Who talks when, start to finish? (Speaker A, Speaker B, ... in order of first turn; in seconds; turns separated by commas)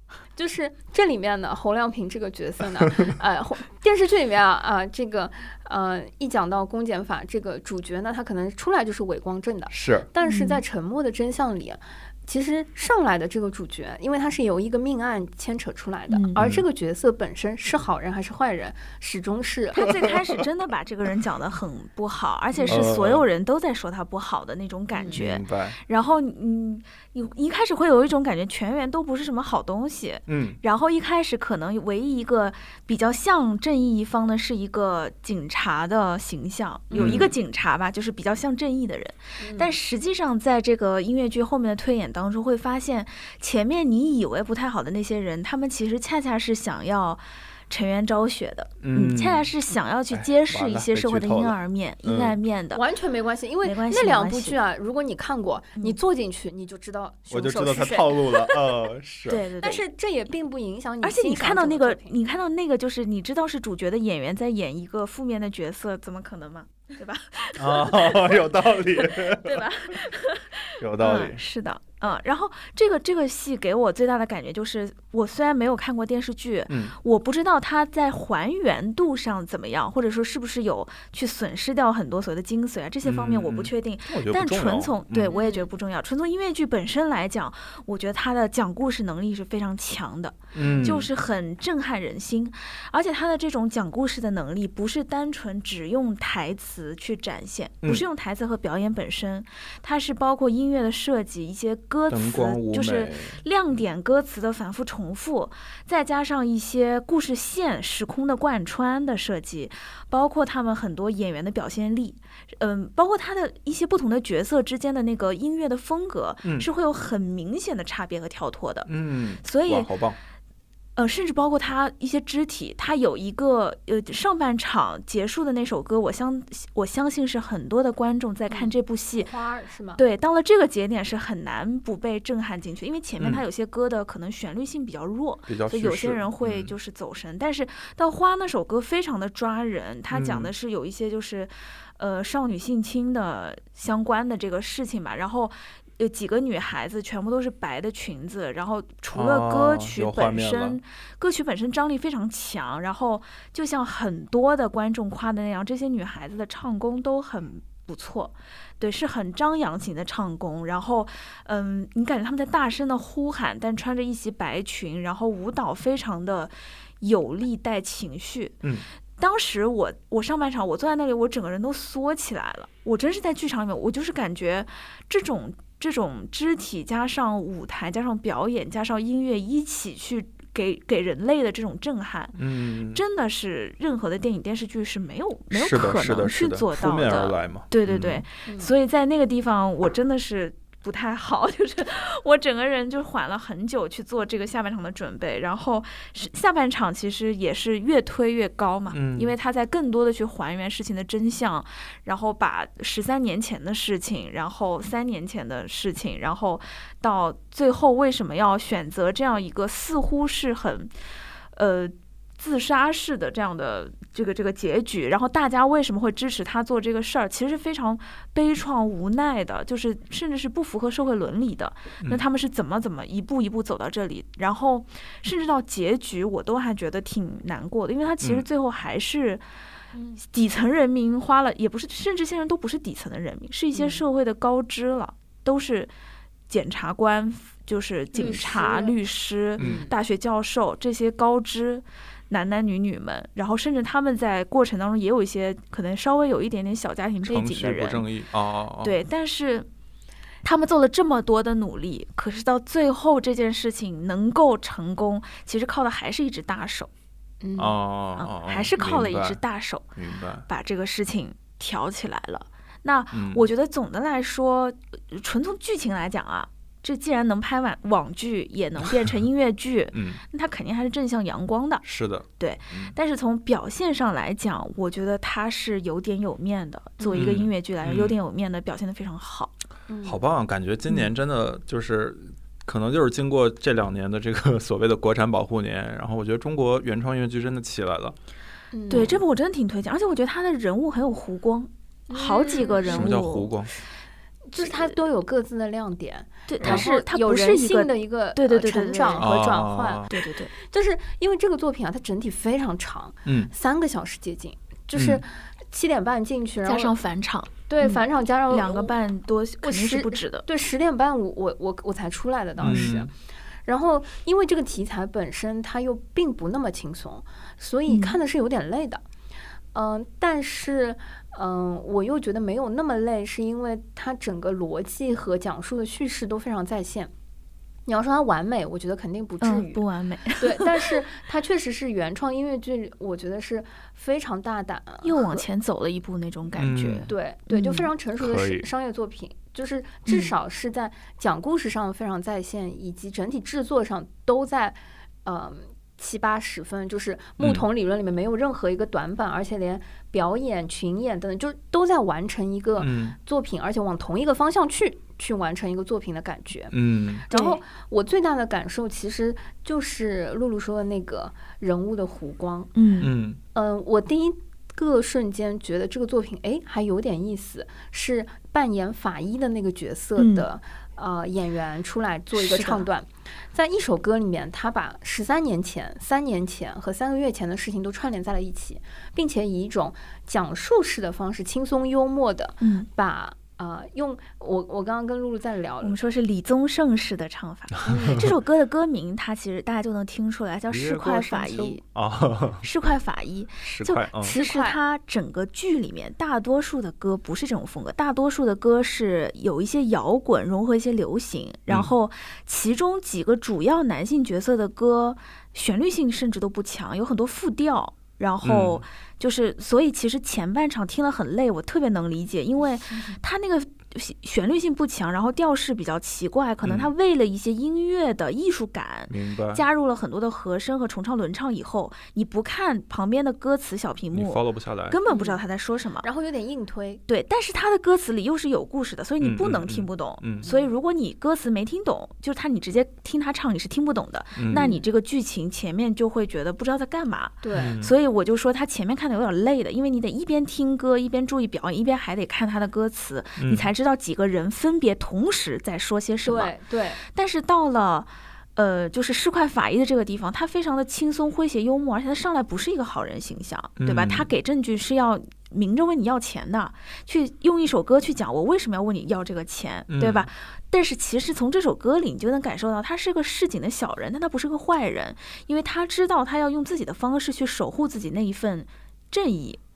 Speaker A: 0.4-19.9, Speaker B: 9.7-10.1, Speaker C: 10.2-10.6, Speaker C: 16.1-16.4, Speaker B: 16.4-16.6, Speaker C: 19.7-52.8, Speaker A: 22.5-22.9, Speaker B: 22.7-23.3, Speaker A: 24.9-25.2, Speaker B: 25.1-25.8, Speaker B: 30.3-30.6, Speaker A: 36.9-37.3, Speaker B: 37.0-37.3, Speaker A: 39.4-39.8, Speaker B: 48.8-49.5, Speaker B: 50.1-52.4, Speaker A: 52.7-58.6, Speaker C: 53.6-54.6, Speaker B: 57.3-59.4, Speaker C: 59.3-59.8, Speaker A: 59.6-62.2, Speaker C: 61.0-118.9, Speaker B: 67.6-70.0, Speaker B: 70.8-71.4, Speaker B: 76.7-77.0, Speaker B: 83.0-85.3, Speaker A: 85.3-85.7, Speaker B: 90.5-91.1, Speaker A: 90.6-90.9, Speaker B: 102.1-103.4, Speaker B: 118.9-120.2, Speaker C: 119.4-119.9, Speaker C: 121.0-129.3, Speaker A: 128.5-130.0, Speaker C: 130.0-168.6, Speaker B: 135.5-136.7, Speaker B: 140.1-140.5, Speaker B: 149.1-150.8, Speaker C: 169.2-182.4, Speaker B: 182.4-183.0, Speaker C: 182.9-210.9, Speaker B: 185.5-188.2, Speaker A: 188.5-188.7, Speaker B: 198.9-199.3, Speaker C: 211.6-229.4, Speaker A: 229.9-230.2, Speaker C: 230.2-235.9, Speaker A: 233.7-234.0, Speaker C: 236.5-248.1, Speaker A: 238.1-239.0, Speaker B: 239.6-239.8, Speaker A: 239.6-239.9, Speaker B: 247.2-249.0, Speaker C: 248.8-249.7, Speaker C: 250.4-256.9, Speaker A: 257.4-257.8, Speaker B: 257.6-259.4, Speaker C: 258.2-271.8, Speaker B: 260.0-260.5, Speaker B: 263.1-263.5, Speaker B: 269.9-270.2, Speaker B: 271.8-272.9, Speaker C: 272.4-279.5, Speaker A: 277.0-277.4, Speaker B: 277.1-278.1, Speaker A: 279.9-280.2, Speaker B: 280.1-288.2, Speaker A: 288.7-289.2, Speaker C: 288.9-293.5, Speaker B: 288.9-289.2, Speaker A: 292.1-293.1, Speaker B: 292.8-293.7, Speaker A: 294.5-306.9, Speaker C: 294.6-294.9, Speaker C: 296.5-299.3, Speaker B: 296.6-296.9, Speaker B: 299.2-300.1, Speaker C: 300.1-300.5, Speaker B: 303.3-303.5, Speaker B: 304.9-305.2, Speaker C: 306.6-310.5, Speaker A: 307.7-308.9, Speaker A: 309.6-313.1, Speaker B: 312.6-313.1, Speaker C: 312.6-312.9, Speaker A: 313.7-319.0, Speaker C: 317.9-318.2, Speaker A: 319.7-327.1, Speaker A: 327.9-329.8, Speaker C: 329.4-331.0, Speaker A: 330.4-335.4, Speaker C: 335.0-337.9, Speaker B: 336.6-337.1, Speaker A: 337.1-356.7, Speaker B: 338.2-338.7, Speaker C: 340.1-340.3, Speaker B: 347.4-347.6, Speaker B: 352.8-353.2, Speaker B: 356.7-357.3, Speaker A: 357.3-362.7, Speaker C: 357.3-357.6, Speaker C: 362.8-363.1, Speaker B: 363.0-363.4, Speaker A: 363.5-386.0, Speaker C: 370.2-370.5, Speaker C: 372.4-372.9, Speaker C: 382.6-382.9, Speaker C: 385.8-391.8, Speaker A: 387.9-388.2, Speaker B: 390.7-392.6, Speaker C: 392.6-426.1, Speaker B: 393.6-394.4, Speaker A: 394.2-394.8, Speaker B: 408.4-408.8, Speaker A: 412.9-413.1, Speaker B: 416.6-416.9, Speaker B: 419.1-419.6, Speaker B: 424.1-425.0, Speaker A: 425.1-425.4, Speaker A: 426.0-427.0, Speaker C: 427.1-469.6, Speaker B: 429.2-430.4, Speaker A: 430.4-430.7, Speaker B: 434.4-434.7, Speaker A: 434.5-434.9, Speaker A: 437.4-437.8, Speaker B: 437.6-437.9, Speaker B: 443.4-443.7, Speaker A: 446.2-447.0, Speaker B: 453.8-454.3, Speaker B: 459.9-460.3